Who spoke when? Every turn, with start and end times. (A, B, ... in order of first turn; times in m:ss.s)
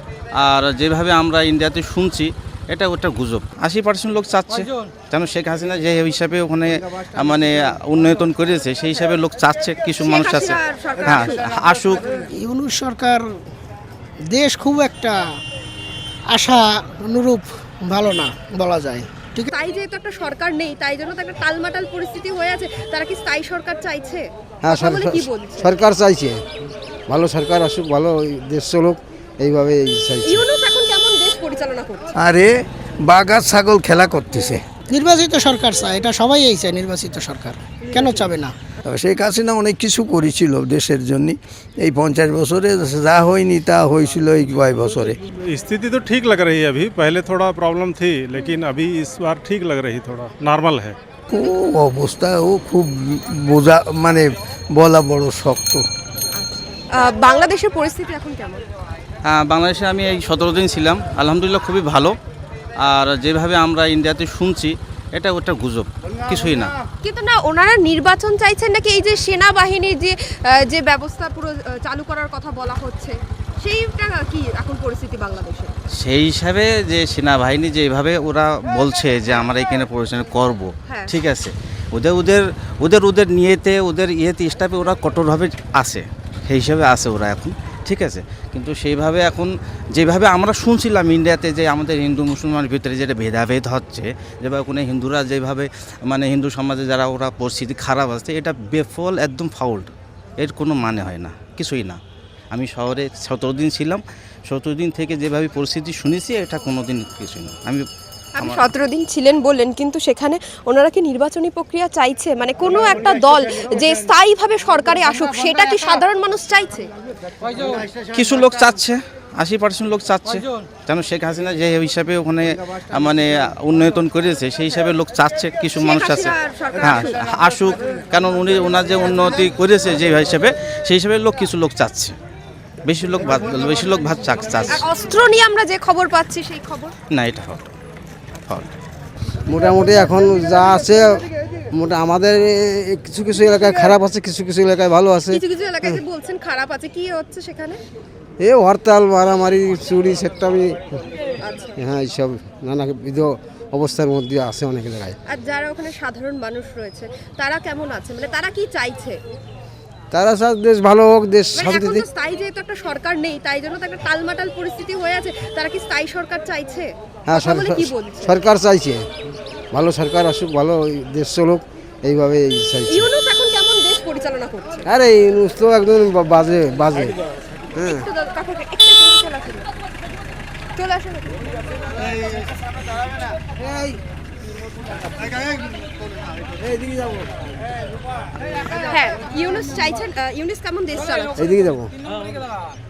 0:00.3-0:12.0 A
0:10.0-0:11.5 B
0:12.3-0:13.2 C
0:14.3-0:15.2 C
0:16.3-0:19.5 C
0:19.5-0:25.8 B
0:24.6-0:26.4 D
0:27.1-0:30.4 D
0:30.2-0:32.1 B
0:32.2-0:32.5 E
0:33.0-0:34.6 E
0:34.9-0:38.5 C
0:37.9-0:38.2 B
0:38.8-0:45.2 E
0:45.4-0:51.0 F
0:51.3-0:55.8 E
0:56.4-0:58.6 B
0:59.2-1:02.2 A
1:02.8-1:06.7 A
1:07.0-1:15.8 B
1:16.0-1:42.0 A
1:20.9-1:21.1 B
1:42.5-1:47.8 A
1:48.3-1:56.9 B
1:48.4-1:48.7 A
1:57.7-2:12.2 A
2:05.8-2:07.1 B
2:12.8-2:14.8 A
2:14.7-2:16.9 B
2:17.1-2:17.7 A
2:19.5-2:26.0 D
2:25.3-2:27.8 B
2:28.4-2:31.0 D
2:31.4-2:31.8 B
2:31.8-2:35.2 D
2:35.3-2:39.2 B
2:40.1-2:42.1 D
2:41.5-2:48.4 B
2:47.2-2:49.1 D
2:49.7-2:53.0 D
2:52.9-2:54.9 B
2:54.8-2:57.2 D
2:57.7-2:58.0 D
2:57.8-2:59.7 B
3:00.8-3:01.4 B
3:03.4-3:04.0 D
3:05.2-3:05.5 D
3:06.6-3:07.4 D
3:08.8-3:11.5 B
3:11.4-3:11.9 D